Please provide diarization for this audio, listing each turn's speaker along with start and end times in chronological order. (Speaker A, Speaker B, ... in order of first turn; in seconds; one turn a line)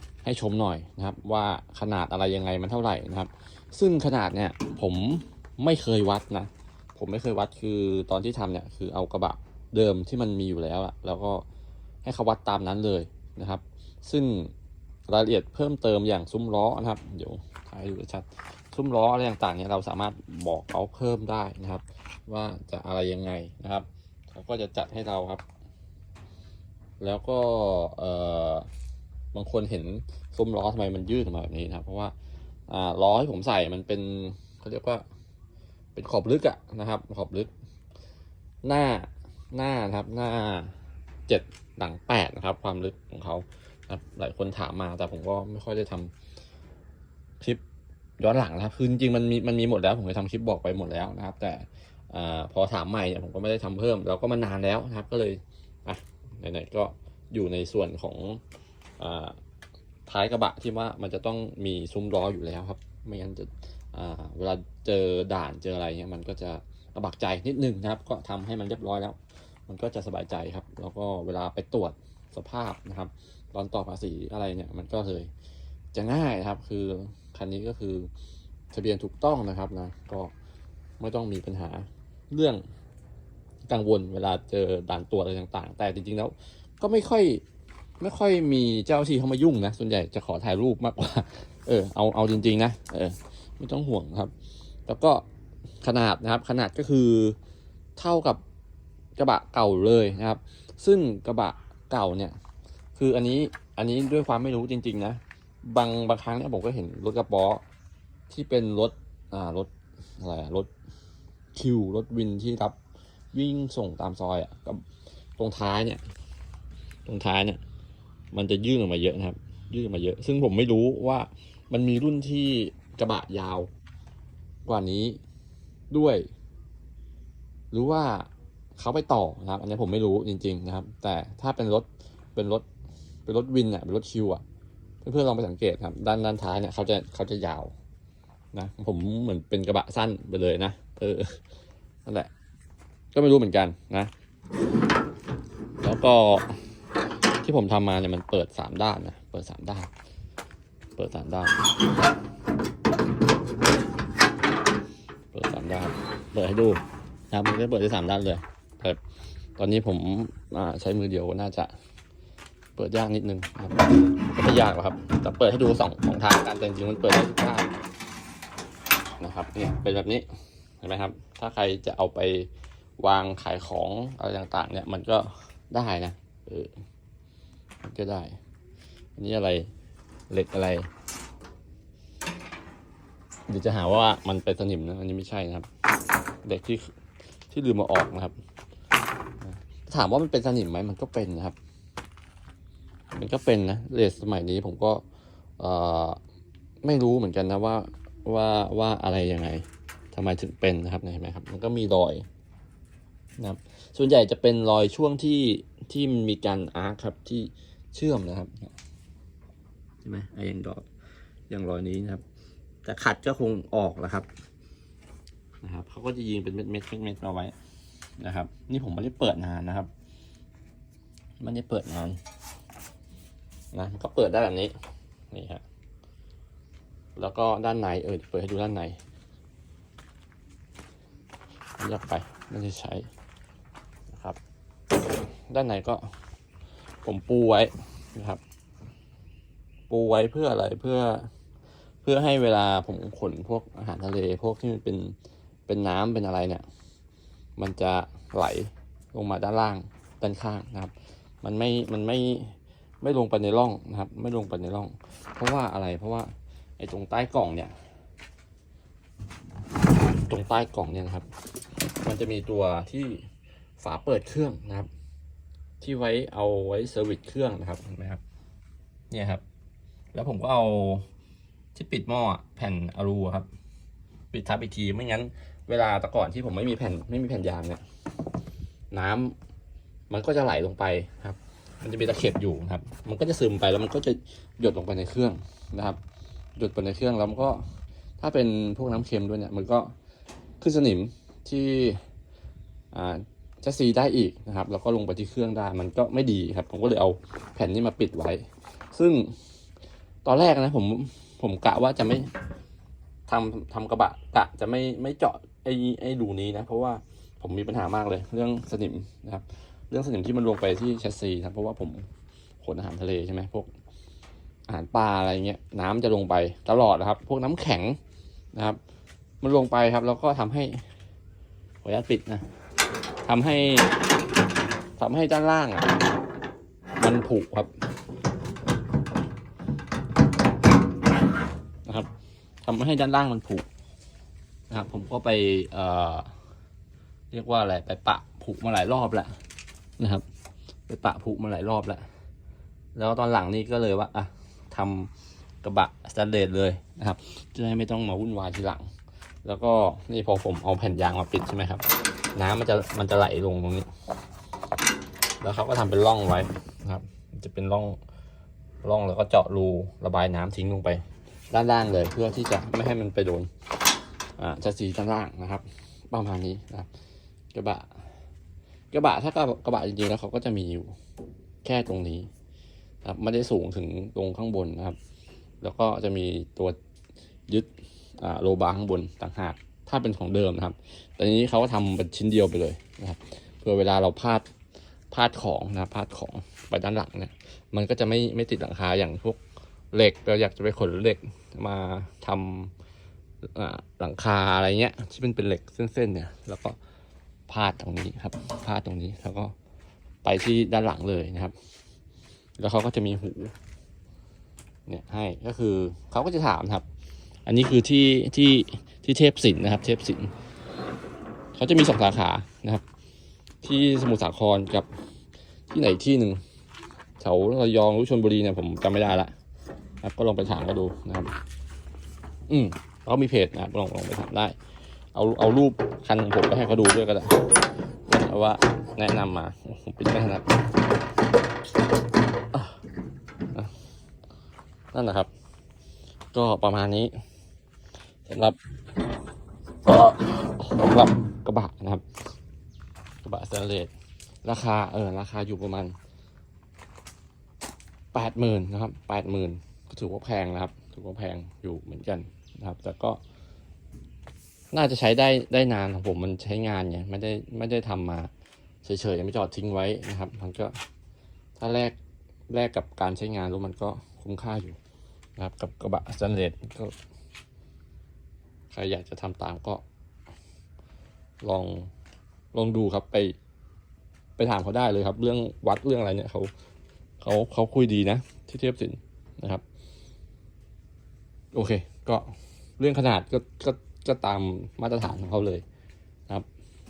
Speaker A: 0.2-11.4
Speaker A: 12.0-14.5
Speaker A: 15.1-25.4
Speaker A: 27.0-28.7
Speaker A: 29.3-32.1
Speaker A: 32.7-35.0
Speaker A: 36.0-37.5
Speaker A: 38.6-40.8
Speaker A: 41.3-46.1
Speaker A: 48.2-58.4
Speaker A: 59.0-59.4
Speaker A: 60.1-75.3
Speaker A: 75.9-78.1
Speaker A: 78.7-80.3
Speaker A: 81.0-82.6
Speaker A: 83.7-87.4
Speaker A: 88.0-94.3
Speaker A: 94.9-95.2
Speaker A: 95.8-97.4
Speaker A: 98.0-98.4
Speaker A: 99.2-102.4
Speaker A: 103.0-107.6
Speaker A: 108.3-110.7
Speaker A: 111.5-112.8
Speaker A: 113.3-114.8
Speaker A: 115.4-116.0
Speaker A: 117.1-117.6
Speaker A: 118.3-123.7
Speaker A: 124.7-125.2
Speaker A: 125.9-126.3
Speaker A: 127.7-132.7
Speaker A: 133.3-134.4
Speaker A: 135.0-137.7
Speaker A: 138.5-141.4
Speaker A: 142.1-142.3
Speaker A: 143.1-144.1
Speaker A: 145.8-146.6
Speaker A: 147.4-149.9
Speaker A: 151.0-151.6
Speaker A: 155.3-159.0
Speaker A: 159.6-161.7
Speaker A: 162.8-167.7
Speaker A: 169.2-170.3
Speaker A: 170.8-176.7
Speaker A: 177.8-178.3
Speaker A: 179.2-179.7
Speaker A: 180.3-180.9
Speaker A: 183.5-185.7
Speaker A: 186.4-186.9
Speaker A: 187.5-188.3
Speaker A: 189.4-191.6
Speaker A: 193.1-195.0
Speaker A: 195.6-196.2
Speaker A: 196.8-202.3
Speaker A: 203.4-208.7
Speaker A: 210.0-210.9
Speaker A: 211.5-212.2
Speaker A: 212.8-214.3
Speaker A: 215.6-217.6
Speaker A: 218.2-219.9
Speaker A: 221.4-222.2
Speaker A: 223.7-224.8
Speaker A: 225.3-225.6
Speaker A: 227.2-229.0
Speaker A: 231.8-233.1
Speaker A: 234.1-234.4
Speaker A: 235.5-236.1
Speaker A: 237.0-238.4
Speaker A: 239.9-241.3
Speaker A: 242.0-245.2
Speaker A: 245.7-246.7
Speaker A: 247.6-257.7
Speaker A: 260.2-261.3
Speaker A: 262.0-263.2
Speaker A: 263.8-264.9
Speaker A: 265.8-268.2
Speaker A: 269.1-269.4
Speaker A: 270.1-271.1
Speaker A: 271.7-273.5
Speaker A: 274.3-277.8
Speaker A: 278.9-279.4
Speaker A: 280.1-286.0
Speaker A: 286.6-287.6
Speaker A: 288.2-289.9
Speaker A: 290.6-292.0
Speaker A: 292.9-299.3
Speaker A: 300.2-302.3
Speaker A: 303.3-312.1
Speaker A: 312.6-313.7
Speaker A: 314.7-318.0
Speaker A: 318.5-318.8
Speaker A: 319.4-320.9
Speaker A: 321.8-322.5
Speaker A: 323.3-323.9
Speaker A: 325.0-326.0
Speaker A: 327.0-327.7
Speaker A: 332.6-333.7
Speaker A: 334.7-336.3
Speaker A: 337.3-339.4
Speaker A: 340.0-340.2
Speaker A: 340.9-342.1
Speaker A: 342.9-345.1
Speaker A: 345.6-348.9
Speaker A: 349.4-353.9
Speaker A: 355.4-358.0
Speaker A: 358.8-363.5
Speaker A: 364.4-366.9
Speaker A: 367.5-367.9
Speaker A: 368.9-370.9
Speaker A: 371.6-372.3
Speaker A: 373.0-375.0
Speaker A: 375.6-376.8
Speaker A: 377.5-384.5
Speaker A: 385.1-389.4
Speaker A: 389.9-392.7
Speaker A: 393.4-396.8
Speaker A: 397.5-399.5
Speaker A: 400.2-401.5
Speaker A: 402.6-403.5
Speaker A: 404.9-406.9
Speaker A: 407.5-410.3
Speaker A: 411.6-412.8
Speaker A: 413.6-414.9
Speaker A: 415.7-416.4
Speaker A: 417.2-419.3
Speaker A: 420.0-421.3
Speaker A: 422.5-424.6
Speaker A: 425.1-427.5
Speaker A: 428.1-430.6
Speaker A: 434.9-435.3
Speaker A: 436.3-437.1
Speaker A: 438.3-438.6
Speaker A: 439.9-442.0
Speaker A: 443.2-443.9
Speaker A: 444.4-445.9
Speaker A: 448.1-453.2
Speaker A: 454.7-458.3
Speaker A: 458.8-460.8
Speaker A: 461.6-462.0
Speaker A: 462.5-464.8
Speaker A: 465.4-466.9
Speaker A: 468.7-469.8
Speaker A: 471.4-471.9
Speaker A: 472.5-473.4
Speaker A: 474.4-476.5
Speaker A: 477.2-479.6
Speaker A: 481.5-485.6